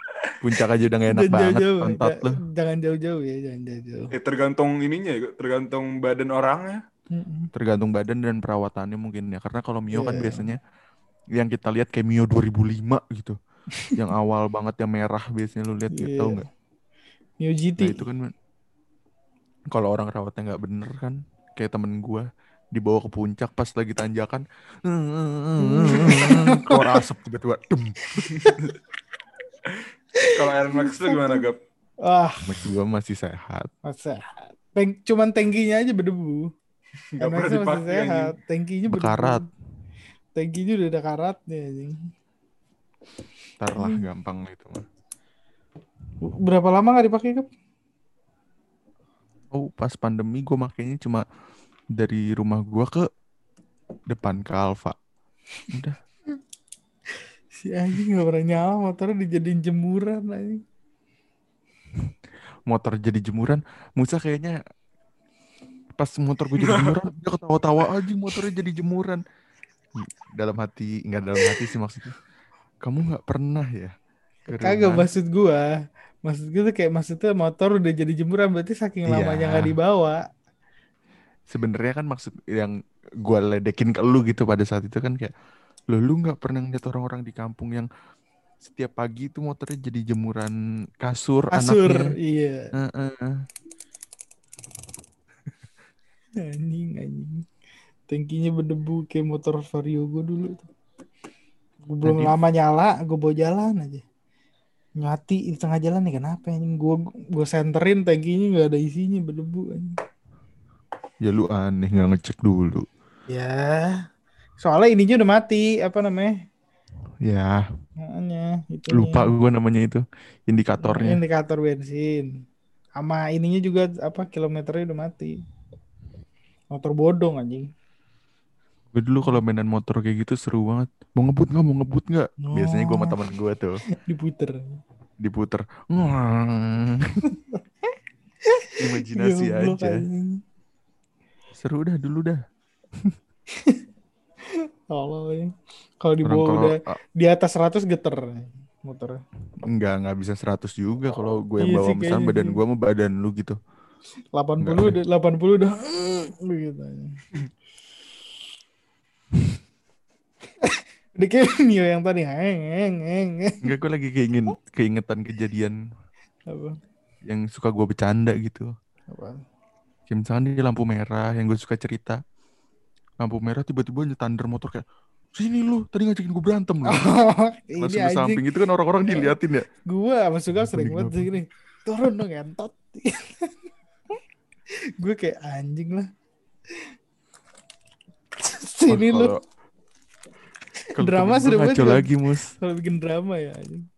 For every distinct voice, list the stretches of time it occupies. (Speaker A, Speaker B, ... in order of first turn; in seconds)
Speaker A: 0.4-2.4, 7.5-10.6, 11.3-13.4, 13.9-16.4, 17.8-18.3, 19.7-28.3, 32.4-33.7, 38.9-39.5, 43.6-44.8, 49.5-51.2, 51.9-53.1, 54.1-55.0, 55.7-56.0, 62.7-64.6, 66.0-69.2, 70.0-72.2, 72.8-73.9, 74.5-75.1, 79.1-79.8, 81.5-85.3, 85.9-87.9, 88.6-92.1, 92.7-93.5, 102.0-102.3, 111.2-112.8, 117.2-117.6, 118.9-121.2, 128.9-133.8, 135.2-137.2, 138.8-140.1, 141.5-142.4, 146.2-147.0, 149.6-153.6, 154.6-155.0, 163.6-165.8, 167.2-168.7, 170.1-172.2, 173.2-174.8, 175.3-177.1, 177.8-179.7, 180.6-181.3, 188.9-189.4, 190.9-192.5
Speaker B: 1.1-4.1, 7.1-7.5, 9.9-10.5, 15.9-16.4, 17.4-18.0, 25.6-26.9, 28.1-28.7, 30.2-31.5, 32.0-32.6, 33.8-36.5, 37.2-39.5, 40.3-42.0, 43.8-44.0, 46.2-47.5, 57.5-60.6, 74.6-75.7, 76.2-80.2, 91.5-92.7, 96.3-97.5, 98.1-100.7, 101.9-104.0, 105.0-110.0, 113.3-114.0, 114.6-116.3, 118.0-119.3, 120.8-122.3, 123.0-125.3, 126.7-127.7, 132.4-133.2, 134.0-134.8, 138.5-140.4, 143.5-143.8, 144.5-149.2, 151.6-152.6, 154.3-157.2, 160.6-163.7, 166.5-166.8, 169.1-169.4, 176.8-178.4, 179.1-179.3, 179.8-183.5, 184.9-186.1, 188.4-189.3, 190.9-193.8
Speaker C: 4.1-6.8, 29.7-31.6, 37.2-38.3, 66.6-67.0